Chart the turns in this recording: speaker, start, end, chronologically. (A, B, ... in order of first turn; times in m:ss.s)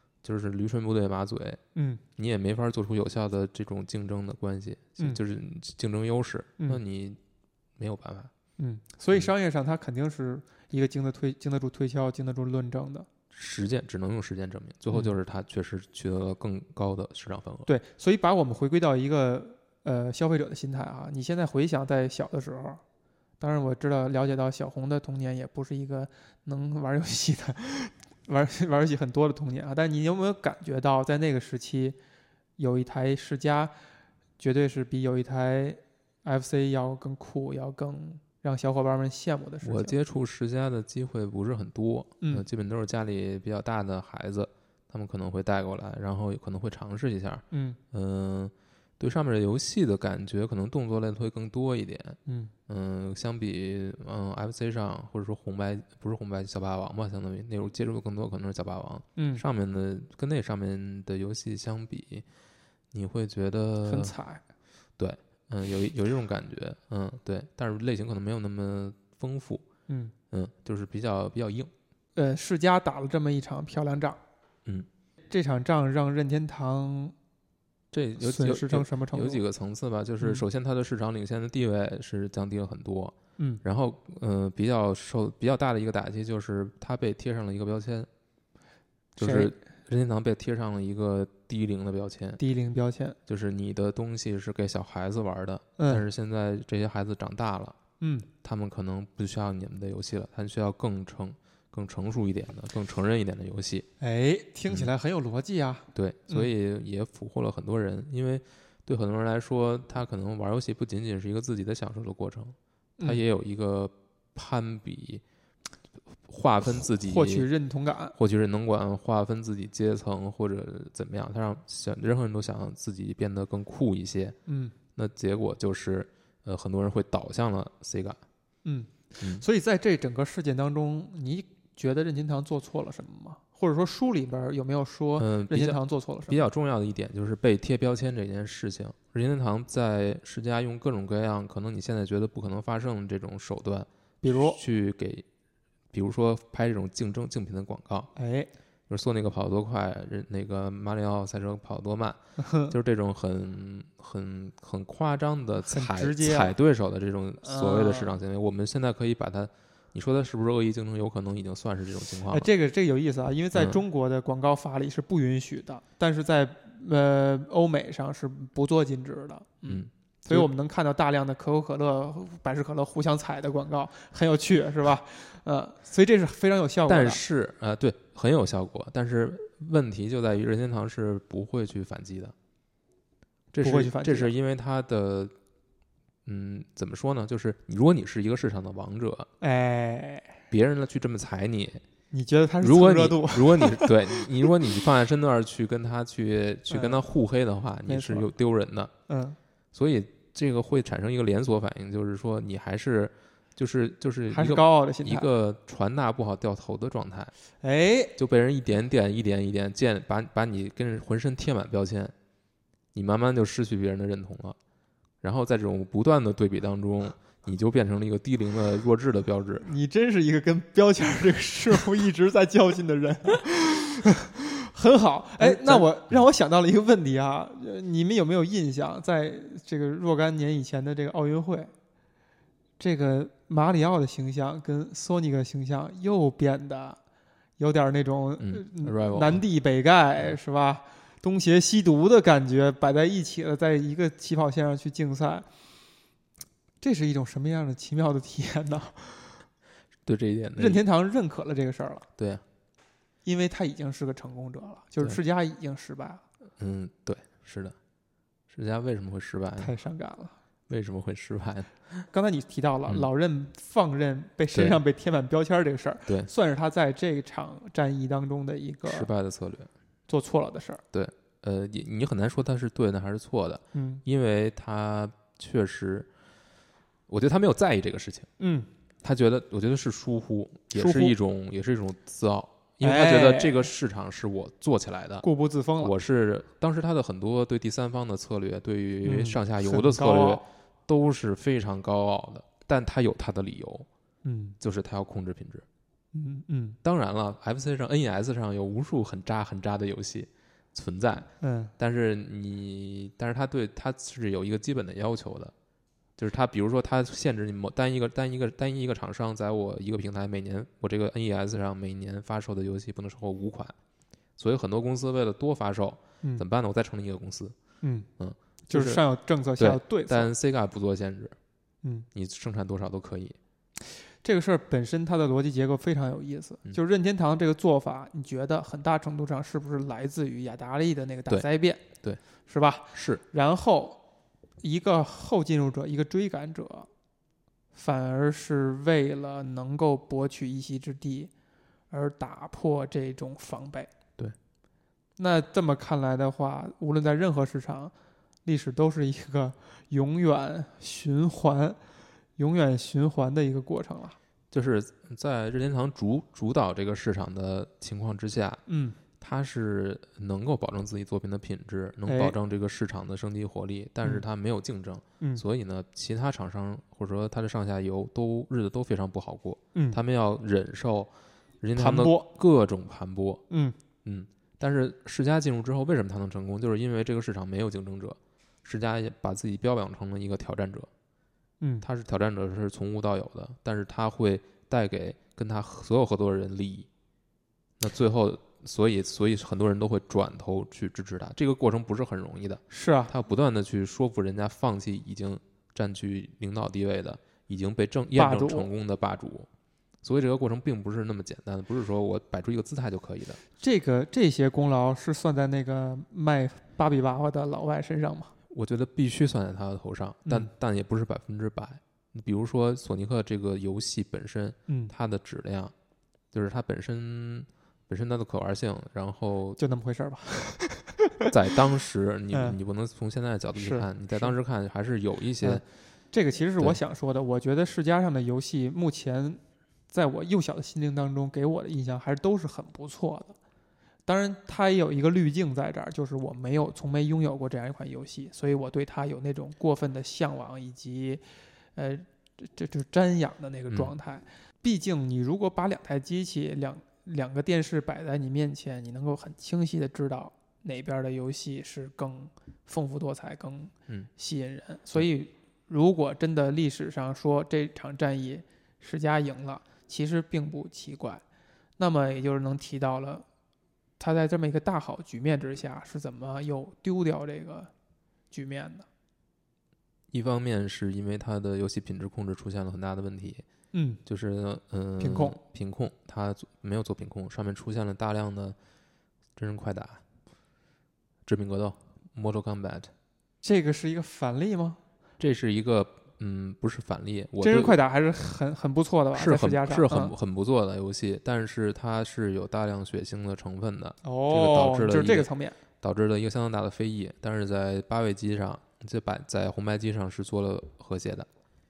0:00.2-0:01.6 A
0:01.8-0:02.0 B
0:02.2-0:07.2 A
0:07.8-0:08.3 A
0:08.6-0:13.1 B
0:13.3-0:17.7 A
0:17.6-0:22.8 B
0:23.4-0:32.0 B
0:32.6-0:33.7 B
0:34.4-0:39.9 B
0:39.6-1:02.2 A
0:47.5-0:47.8 B
0:52.2-0:52.5 B
0:59.2-0:59.4 B
1:02.9-1:04.1 A
1:03.8-1:04.4 B
1:05.0-1:09.6 A
1:09.9-1:10.1 B
1:10.3-1:11.7 A
1:12.2-1:14.2 B
1:15.3-1:17.1 B
1:17.9-1:28.1 A
1:18.2-1:19.4 B
1:29.2-1:32.4 A
1:29.2-1:29.5 B
1:32.4-1:33.2 B
1:33.3-1:37.8 A
1:35.8-1:36.0 B
1:38.0-1:38.3 B
1:38.4-1:43.8 A
1:44.0-1:46.5 B
1:45.9-1:55.2 A
1:56.3-1:57.5 A
1:56.7-1:58.1 B
1:58.1-2:04.4 A
2:04.5-2:04.7 B
2:04.9-2:08.2 A
2:08.6-2:16.4 B
2:09.2-2:09.4 A
2:15.2-2:25.2 A
2:24.2-2:24.6 B
2:25.9-2:28.1 A
2:28.2-2:28.5 B
2:28.9-2:42.5 A
2:32.4-2:32.7 B
2:35.6-2:36.5 B
2:37.4-2:38.2 B
2:42.3-2:57.2 B
2:43.5-2:43.8 A
2:49.6-2:50.5 A
2:56.9-3:02.3 A
3:03.5-3:05.3 A
3:03.6-3:04.3 B
3:06.2-3:09.3 A
3:09.4-3:10.4 B
3:10.5-3:11.8 A
3:12.1-3:14.5 B
3:12.6-3:18.9 A
3:16.7-3:17.0 B
3:17.9-3:18.3 B
3:19.1-3:19.4 B
3:19.7-3:27.3 A
3:24.3-3:25.3 B
3:27.6-3:28.1 B
3:28.2-3:32.1 A
3:32.9-3:34.6 A
3:35.2-3:39.7 A
3:39.6-3:51.7 B
3:45.4-3:46.2 A
3:52.8-3:57.0 B
3:57.6-4:05.5 B
3:58.4-3:59.4 A
4:06.8-4:09.3 B
4:10.0-4:10.8 A
4:10.6-4:12.1 B
4:12.2-4:12.4 A
4:13.2-4:16.2 B
4:16.6-4:17.8 A
4:18.5-4:19.7 A
4:19.6-4:20.4 B
4:20.7-4:21.8 A
4:22.1-4:29.1 B
4:24.5-4:24.8 A
4:28.8-4:29.7 A
4:30.1-4:30.8 B
4:30.9-4:36.1 A
4:33.7-4:34.0 B
4:37.1-4:38.3 A
4:38.4-4:38.7 B
4:39.0-4:45.2 A
4:40.7-4:41.1 B
4:42.8-4:43.7 B
4:45.2-4:45.9 B
4:45.8-4:53.9 A
4:49.0-4:50.4 B
4:54.2-4:54.6 B
4:54.6-4:55.6 A
4:56.1-4:56.8 B
4:56.8-5:05.5 A
5:01.4-5:01.7 B
5:06.2-5:13.7 A
5:14.4-5:17.5 A
5:17.8-5:18.1 B
5:18.2-5:19.0 A
5:18.7-5:20.3 B
5:19.6-5:21.4 A
5:22.1-5:23.4 A
5:23.8-5:31.8 B
5:31.3-5:32.2 A
5:32.4-5:34.0 B
5:32.9-5:33.2 A
5:34.6-5:36.9 B
5:37.7-5:41.3 B
5:41.9-5:43.9 B
5:45.2-5:47.9 B
5:48.4-5:51.8 B
5:52.4-5:54.2 B
5:54.5-5:58.6 A
5:58.7-5:59.0 B
5:59.2-6:13.4 A
6:02.1-6:02.4 B
6:11.8-6:12.3 B
6:13.5-6:13.8 B
6:14.0-6:20.9 A
6:21.6-6:21.8 B
6:21.8-6:26.9 A
6:27.8-6:39.5 A
6:32.7-6:33.1 B
6:38.1-6:38.7 B
6:40.0-6:43.4 A
6:43.6-6:48.3 B
6:48.5-6:55.7 A
6:54.7-6:54.9 B
6:56.3-6:59.6 A
6:59.6-7:01.3 B
7:01.3-7:05.6 A
7:02.3-7:02.6 B
7:03.6-7:04.3 B
7:05.4-7:13.4 B
7:14.0-7:21.2 B
7:21.8-7:41.2 B
7:41.8-7:43.2 B
7:44.0-7:47.7 B
7:48.3-7:48.9 B
7:50.1-7:53.4 A
7:53.7-7:54.0 B
7:54.0-7:58.6 A
7:55.0-7:55.4 B
7:59.4-8:00.0 A
8:01.2-8:02.9 A
8:03.4-8:04.8 B
8:05.2-8:07.8 A
8:07.4-8:10.1 B
8:09.1-8:15.3 A
8:14.0-8:15.6 B
8:15.8-8:21.3 A